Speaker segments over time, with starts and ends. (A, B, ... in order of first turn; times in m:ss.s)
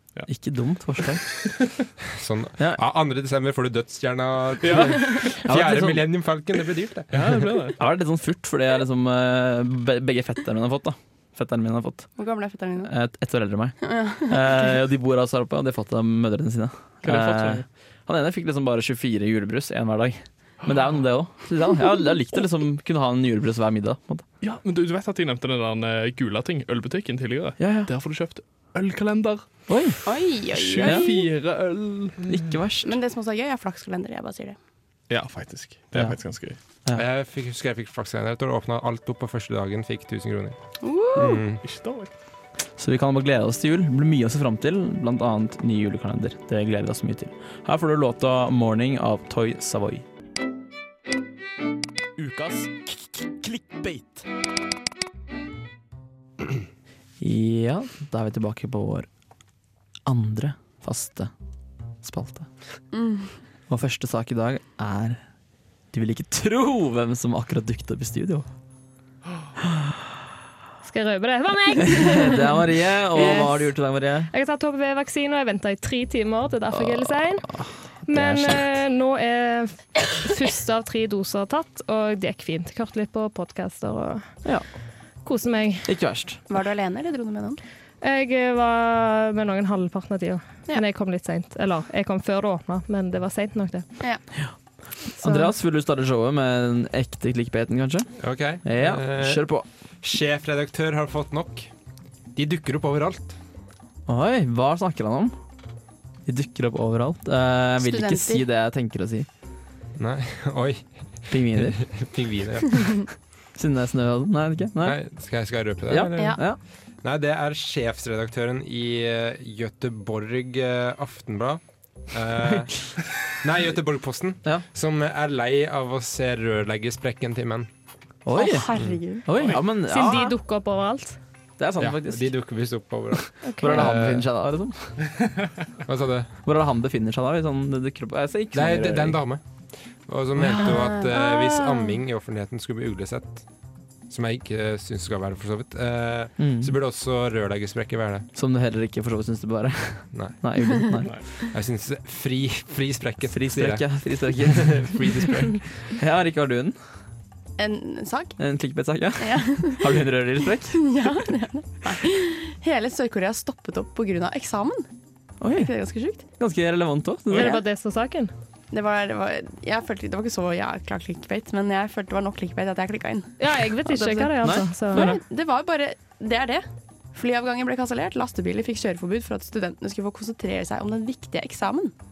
0:00.2-0:01.2 A
0:02.1-0:07.4 B
0:04.6-0:05.2 C
0:05.4-0:06.0 A
0:07.1-0:07.8 C
0:07.8-0:12.1 A
0:12.2-0:12.9 D
0:12.8-0:24.2 A
0:13.8-0:14.7 D
0:17.0-0:17.6 C
0:20.6-0:21.0 C
0:24.4-0:29.5 C
0:27.6-0:27.9 A
0:29.7-0:30.0 A
0:30.0-0:31.2 D
0:30.5-0:32.5 C
0:30.8-0:31.1 A
0:32.3-0:33.0 A
0:32.8-0:34.6 D
0:35.1-0:36.6 C
0:36.9-0:40.6 B
0:40.8-0:41.4 D
0:41.1-0:41.6 B
0:41.6-0:42.1 C
0:42.8-0:50.0 A
0:52.2-0:54.2 A
0:57.2-0:59.1 A
1:00.0-1:01.3 A
1:02.0-1:02.5 A
1:02.9-1:03.4 D
1:03.7-1:05.2 A
1:05.9-1:08.5 A
1:10.8-1:12.5 E
1:11.8-1:14.3 A
1:13.1-1:13.6 E
1:14.3-1:24.4 E
1:17.6-1:18.8 A
1:25.2-1:25.9 E
1:25.8-1:26.4 A
1:26.5-1:27.6 D
1:28.0-1:33.9 E
1:34.0-1:34.2 D
1:35.2-1:39.6 A
1:38.2-1:39.5 B
1:40.0-1:41.7 B
1:42.3-1:43.4 B
1:44.1-1:45.3 A
1:46.2-1:49.3 A
1:47.8-1:48.4 D
1:50.0-1:53.0 B
1:51.3-1:51.8 A
1:53.5-1:55.0 A
1:54.8-2:07.7 B
1:55.9-1:56.6 A
1:56.1-1:56.4 D
2:08.2-2:10.3 A
2:08.3-2:09.5 D
2:08.7-2:09.0 B
2:09.8-2:11.2 E
2:11.6-2:12.4 A
2:11.8-2:14.3 B
2:13.6-2:15.0 A
2:15.8-2:16.3 B
2:16.4-2:19.2 A
2:18.5-2:19.4 B
2:20.0-2:23.4 B
2:20.4-2:21.9 D
2:24.1-2:28.3 B
2:26.4-2:26.7 A
2:28.3-2:31.1 A
2:30.1-2:30.4 B
2:31.0-2:35.7 B
2:33.3-2:36.8 A
2:37.6-2:38.4 D
2:38.4-2:40.8 A
2:39.2-2:40.1 D
2:40.7-2:44.8 D
2:45.4-2:47.5 A
2:45.5-2:46.2 D
2:47.3-2:47.6 D
2:47.3-2:48.3 E
2:48.7-3:01.9 D
2:53.4-2:55.2 E
2:54.4-2:55.2 A